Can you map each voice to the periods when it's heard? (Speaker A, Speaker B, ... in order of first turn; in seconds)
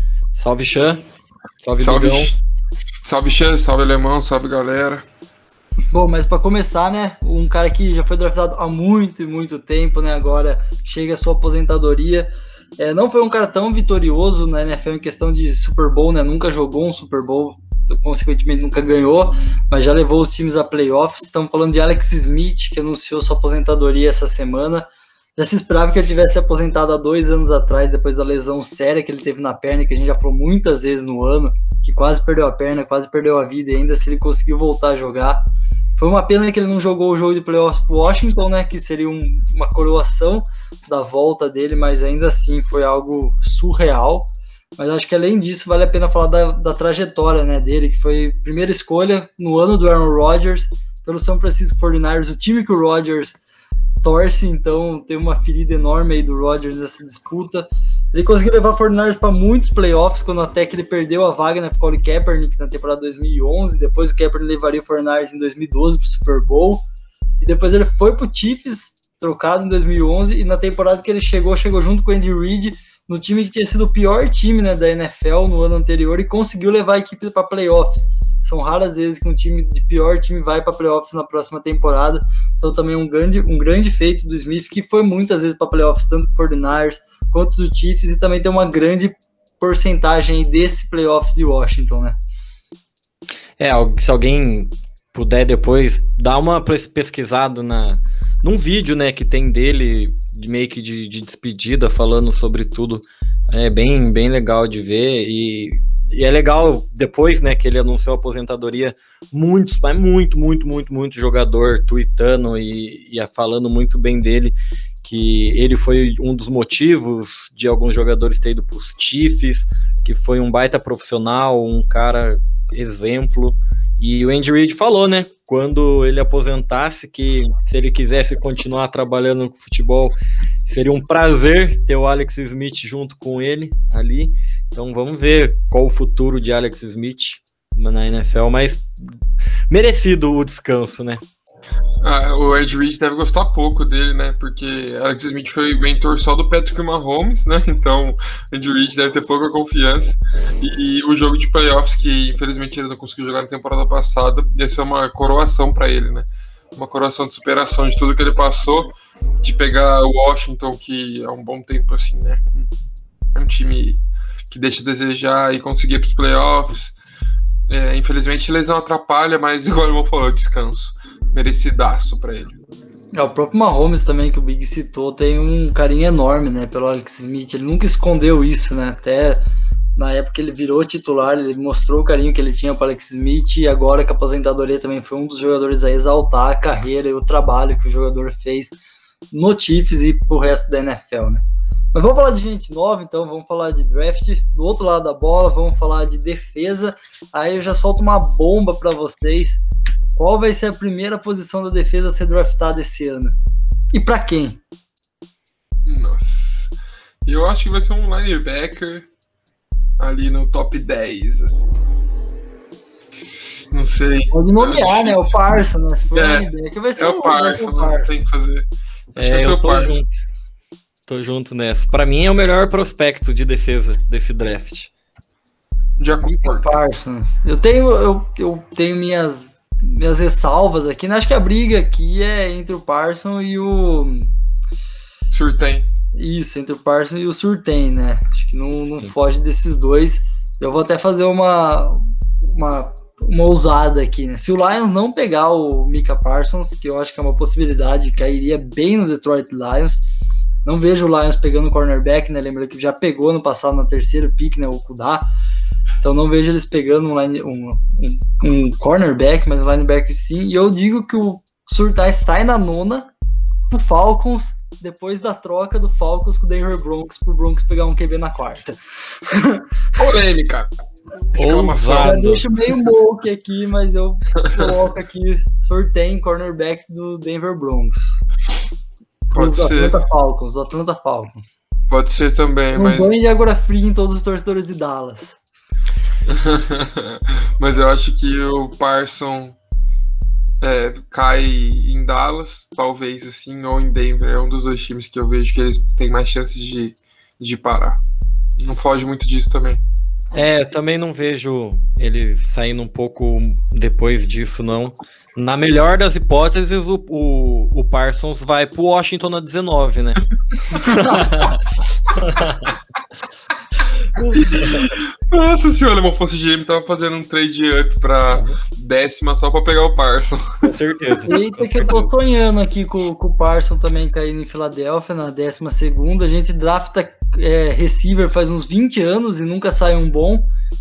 Speaker A: 0.3-1.0, 1.6-2.3, 93.6-138.9, 139.7-141.2, 219.1-220.1, 221.1-224.9, 271.3-272.4, 300.3-312.7, 314.1-314.9, 320.6-322.1
Speaker B: 1.8-2.4, 3.0-5.0, 142.0-162.7, 163.3-166.9, 167.7-172.5, 205.8-206.7, 207.2-209.1, 210.0-211.7, 213.7-215.4, 216.1-220.0, 226.0-226.7, 235.3-235.8, 270.0-272.2, 274.4-274.7, 279.3-280.0, 281.9-283.1, 286.2-289.6, 290.6-298.0, 298.6-299.8, 314.3-320.6
Speaker C: 5.9-24.8, 25.4-35.4, 36.0-53.4, 54.0-66.8, 67.4-92.2, 173.1-179.4, 179.9-188.8, 189.3-199.6, 200.2-203.3, 203.9-204.6, 214.3-218.2, 226.2-234.3, 236.1-250.0, 250.6-255.2, 256.0-263.1, 263.7-269.7, 272.0-278.2, 279.3-281.4, 282.7-285.4, 321.2-330.5